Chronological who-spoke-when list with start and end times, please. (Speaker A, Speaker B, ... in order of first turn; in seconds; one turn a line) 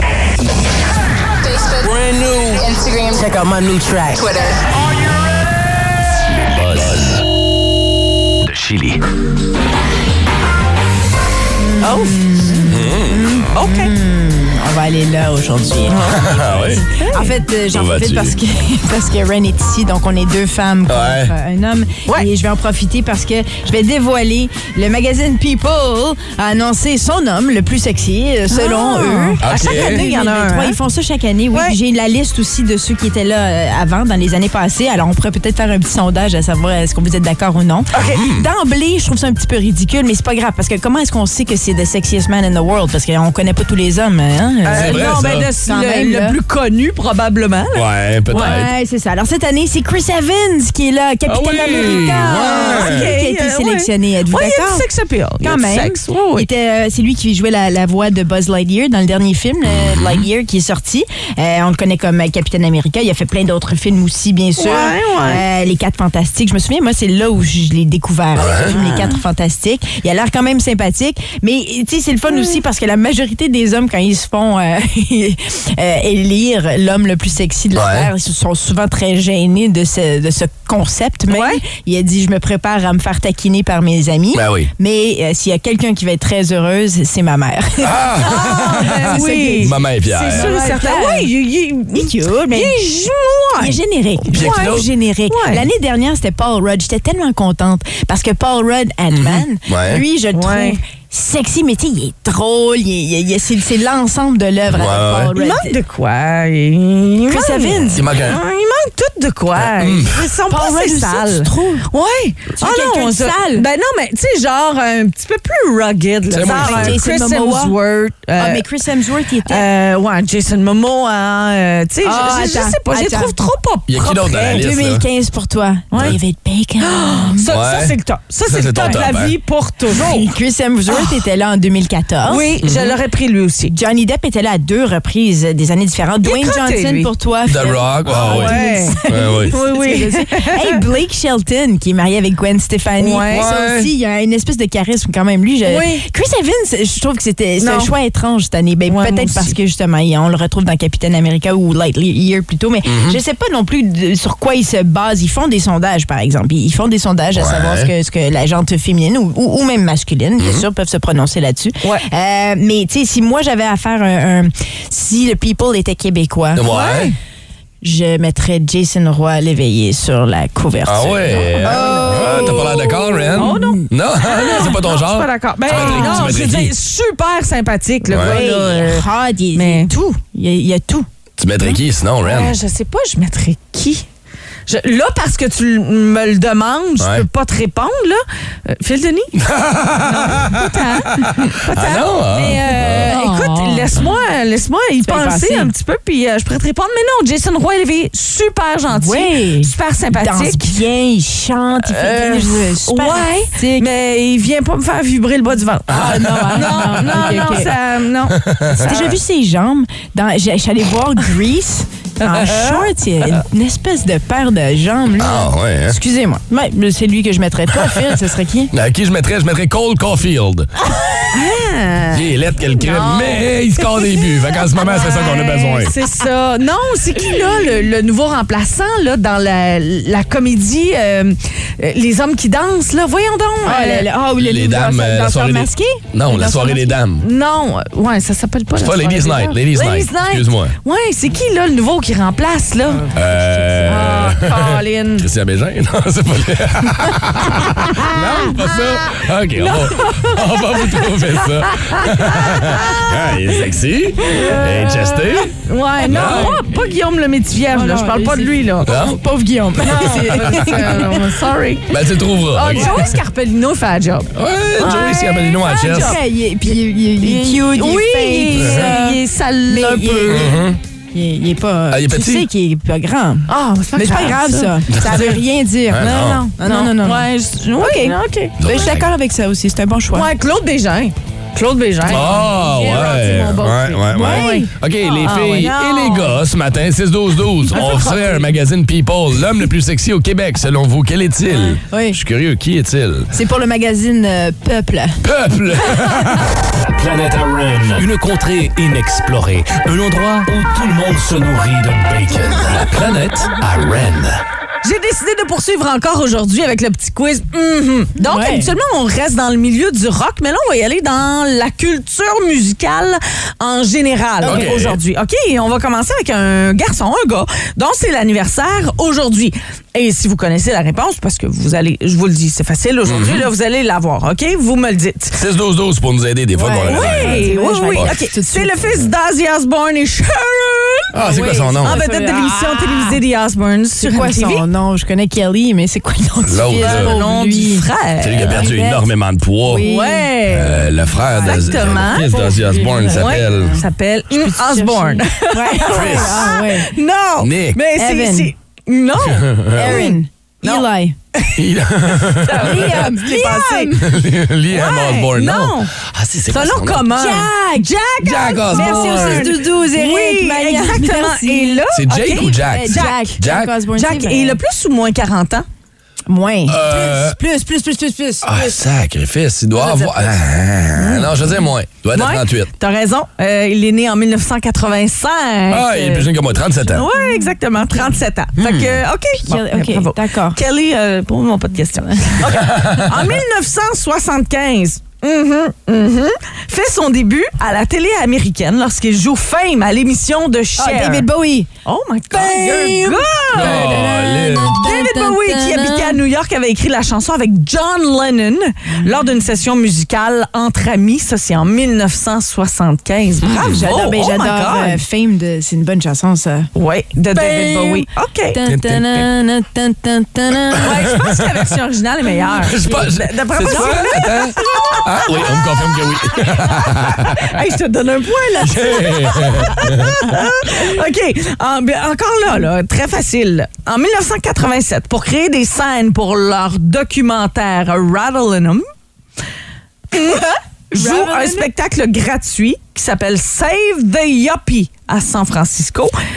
Speaker A: 1.4-1.9
Speaker A: 2.5-3.4
Speaker A: 4.0-4.7
Speaker B: 6.7-7.1
Speaker C: 11.6-46.4
Speaker D: 11.8-12.7
Speaker B: 12.7-13.5
Speaker D: 13.5-13.9
Speaker D: 15.9-16.3
Speaker B: 16.1-16.8
Speaker D: 16.9-17.3
Speaker B: 17.7-18.4
Speaker B: 20.9-21.3
Speaker D: 28.5-30.8
Speaker B: 29.4-30.0
Speaker D: 37.9-38.2
Speaker B: 38.0-38.5
Speaker D: 44.6-48.6
Speaker B: 44.7-45.5
Speaker B: 47.7-48.7
Speaker C: 48.3-54.8
Speaker B: 51.2-53.1
Speaker D: 51.7-56.5
Speaker C: 55.4-91.3
Speaker B: 59.7-60.2
Speaker D: 64.6-65.4
Speaker B: 68.4-68.7
Speaker D: 68.7-69.1
Speaker B: 77.7-78.1
Speaker D: 81.3-81.6
Speaker B: 84.3-84.7
Speaker B: 87.8-90.5
Speaker D: 88.2-95.7
Speaker C: 91.9-92.8
Speaker C: 93.6-105.8
Speaker B: 94.3-94.9
Speaker B: 99.1-100.0
Speaker D: 100.3-100.8
Speaker B: 104.7-105.3
Speaker D: 105.3-118.7
Speaker C: 107.3-108.1
Speaker B: 107.9-108.4
Speaker B: 109.5-110.2
Speaker C: 110.4-111.9
Speaker C: 112.6-113.7
Speaker B: 116.3-117.0
Speaker C: 116.5-117.8
Speaker C: 118.3-119.7
Speaker D: 119.5-124.7
Speaker C: 122.0-123.4
Speaker B: 123.9-125.0
Speaker C: 124.5-127.5
Speaker D: 125.9-126.2
Speaker D: 126.8-130.3
Speaker B: 127.5-127.9
Speaker B: 128.4-129.3
Speaker C: 129.9-132.5
Speaker D: 132.3-133.7
Speaker B: 132.6-132.9
Speaker C: 133.7-166.7
Speaker D: 136.2-137.1
Speaker B: 137.5-138.6
Speaker D: 138.1-140.8
Speaker B: 139.1-139.5
Speaker D: 143.0-143.5
Speaker B: 143.3-143.9
Speaker D: 145.6-146.0
Speaker D: 147.6-147.9
Speaker D: 148.9-149.6
Speaker B: 152.8-153.2
Speaker B: 157.3-157.9
Speaker B: 160.4-160.6
Speaker B: 166.6-167.1
Speaker D: 166.6-167.1
Speaker C: 167.8-173.8
Speaker B: 170.8-176.7
Speaker D: 171.6-172.7
Speaker D: 173.3-179.9
Speaker C: 175.7-176.4
Speaker B: 178.1-178.4
Speaker C: 178.1-181.1
Speaker B: 181.4-182.6
Speaker D: 182.2-184.1
Speaker D: 184.7-189.3
Speaker B: 187.0-187.2
Speaker B: 189.4-193.1
Speaker D: 190.0-200.8
Speaker C: 193.0-193.9
Speaker C: 195.0-195.7
Speaker C: 198.9-203.9
Speaker D: 201.8-209.1
Speaker C: 205.9-207.7
Speaker B: 205.9-206.5
Speaker B: 208.4-209.1
Speaker C: 208.8-218.7
Speaker D: 212.2-213.4
Speaker B: 215.2-216.0
Speaker B: 218.7-220.7
Speaker D: 221.3-224.2
Speaker B: 222.1-225.9
Speaker D: 224.8-234.1
Speaker C: 233.6-237.0
Speaker B: 234.4-237.2
Speaker D: 237.2-243.1
Speaker B: 238.8-240.8
Speaker C: 242.9-244.3
Speaker B: 243.1-256.6
Speaker D: 243.8-245.3
Speaker D: 249.6-253.3
Speaker D: 254.2-258.9
Speaker C: 256.1-256.6
Speaker C: 257.7-261.4
Speaker B: 258.8-259.2
Speaker D: 259.9-261.9
Speaker B: 260.1-260.8
Speaker B: 261.9-263.1
Speaker D: 262.5-270.5
Speaker C: 262.7-263.1
Speaker B: 264.3-266.2
Speaker C: 265.6-270.6
Speaker B: 268.5-268.9
Speaker B: 270.3-270.8
Speaker C: 271.1-280.3
Speaker B: 271.9-272.5
Speaker D: 273.5-275.4
Speaker B: 274.9-275.2
Speaker B: 275.9-276.4
Speaker D: 276.0-278.6
Speaker B: 278.6-279.1
Speaker D: 280.1-286.4
Speaker B: 282.1-293.3
Speaker C: 284.1-284.7
Speaker C: 285.2-285.7
Speaker D: 287.7-288.5
Speaker C: 291.8-292.2
Speaker C: 293.3-295.2
Speaker B: 295.2-296.5
Speaker E: 296.9-304.3
Speaker D: 304.8-325.4
Speaker C: 308.2-308.7
Speaker C: 314.4-314.7
Speaker B: 314.4-315.0
Speaker B: 323.1-323.5
Speaker B: 325.3-328.1
Speaker C: 326.6-329.1
Speaker D: 326.9-331.1
Speaker B: 331.1-332.0
Speaker C: 331.2-333.2
Speaker D: 331.8-334.6
Speaker C: 334.0-337.8
Speaker B: 336.4-337.1
Speaker D: 336.8-338.7
Speaker B: 338.2-339.9
Speaker C: 338.4-339.1
Speaker C: 339.6-340.3
Speaker D: 339.8-340.9
Speaker B: 340.5-343.8
Speaker C: 341.1-346.9
Speaker D: 341.4-351.6
Speaker B: 345.9-346.4
Speaker B: 347.4-347.8
Speaker C: 347.9-348.5
Speaker B: 349.2-350.1
Speaker C: 349.7-351.2
Speaker B: 351.5-353.1
Speaker D: 352.4-354.0
Speaker C: 352.5-354.1
Speaker B: 354.0-357.1
Speaker D: 354.7-355.9
Speaker D: 356.5-363.4
Speaker C: 357.1-357.9
Speaker B: 358.2-359.6
Speaker C: 358.5-364.6
Speaker B: 361.9-363.7
Speaker D: 363.9-365.6
Speaker C: 366.3-368.7
Speaker B: 366.7-367.4
Speaker B: 368.4-372.7
Speaker C: 369.8-370.3
Speaker D: 371.0-371.3
Speaker D: 372.1-376.3
Speaker B: 375.7-377.1
Speaker D: 376.8-391.3
Speaker C: 377.1-378.1
Speaker B: 378.6-379.0
Speaker C: 379.4-380.6
Speaker C: 381.9-382.5
Speaker B: 382.6-383.2
Speaker C: 390.8-391.7
Speaker D: 391.8-394.0
Speaker C: 392.3-396.2
Speaker B: 393.5-394.8
Speaker D: 394.7-405.0
Speaker C: 398.9-399.3
Speaker B: 403.5-403.8
Speaker C: 403.5-406.7
Speaker D: 406.7-408.6
Speaker C: 407.3-411.1
Speaker B: 408.6-409.3
Speaker D: 410.8-428.8
Speaker B: 412.6-417.5
Speaker C: 413.6-414.1
Speaker B: 418.6-420.4
Speaker D: 430.1-436.1
Speaker C: 430.1-431.7